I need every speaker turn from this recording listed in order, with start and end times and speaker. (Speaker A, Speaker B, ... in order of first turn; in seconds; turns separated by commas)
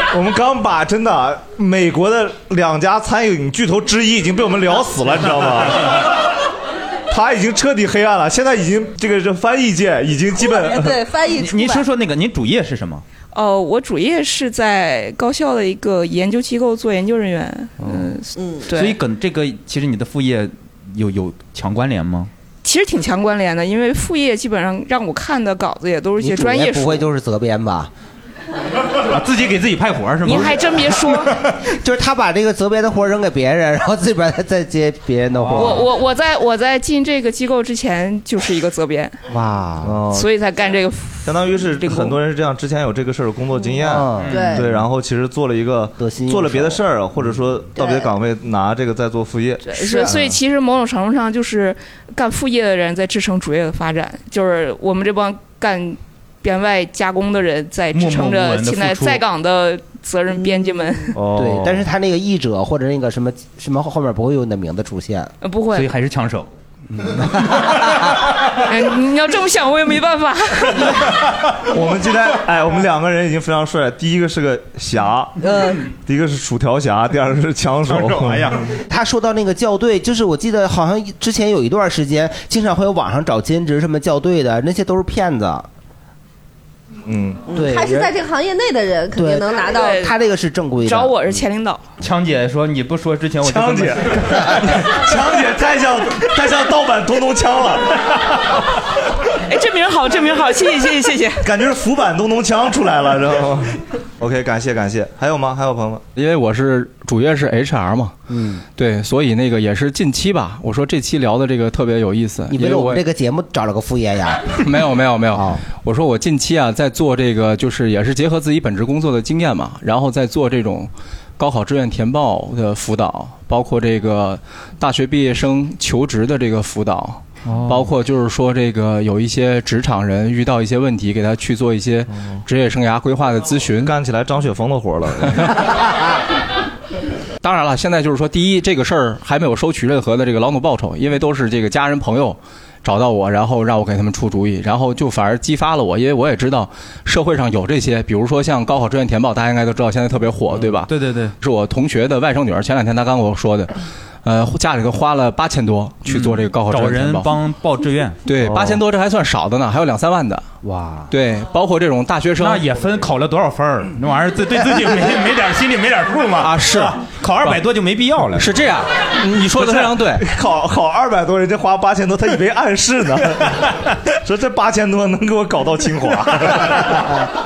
Speaker A: 0.1-6.1, Speaker A: 7.1-11.0, Speaker B: 10.4-11.9, Speaker C: 11.4-13.1, Speaker D: 13.3-19.0, Speaker B: 18.4-18.6, Speaker C: 18.7-22.3, Speaker D: 22.6-27.1, Speaker E: 26.2-27.9, Speaker C: 29.1-31.6, Speaker D: 30.2-31.4, Speaker E: 31.8-35.9, Speaker C: 35.4-35.8, Speaker D: 35.5-39.2, Speaker E: 39.3-40.0, Speaker A: 39.8-40.3, Speaker D: 40.1-42.2, Speaker A: 41.2-50.4, Speaker E: 43.8-44.7, Speaker C: 44.2-44.5, Speaker B: 44.3-44.7, Speaker E: 46.0-46.8, Speaker B: 47.8-48.1, Speaker D: 49.6-61.2, Speaker C: 57.9-59.2, Speaker A: 61.1-61.9, Speaker E: 61.3-65.3, Speaker D: 65.4-65.9, Speaker C: 65.7-68.1, Speaker D: 68.6-71.0, Speaker A: 71.6-78.6, Speaker B: 75.5-75.8, Speaker C: 77.9-78.8, Speaker E: 78.9-85.7, Speaker A: 87.1-87.5, Speaker B: 87.5-90.0, Speaker E: 87.5-88.1, Speaker E: 89.1-91.4, Speaker D: 89.7-90.2, Speaker D: 90.8-91.9, Speaker C: 92.0-94.8, Speaker A: 93.4-98.0, Speaker D: 99.5-101.5, Speaker A: 101.4-106.0, Speaker F: 106.2-108.2, Speaker E: 108.3-108.6, Speaker F: 108.8-113.0, Speaker E: 112.5-114.5, Speaker F: 114.6-133.9, Speaker E: 115.3-115.6, Speaker C: 127.5-127.9, Speaker A: 133.8-135.6, Speaker F: 137.4-153.7, Speaker C: 150.6-151.3, Speaker F: 154.2-157.4, Speaker C: 156.1-158.2, Speaker F: 158.2-160.5, Speaker A: 158.4-158.8, Speaker C: 160.6-161.1, Speaker F: 161.1-162.7, Speaker C: 162.4-168.5, Speaker F: 166.4-167.0, Speaker F: 168.4-170.3, Speaker A: 169.5-177.2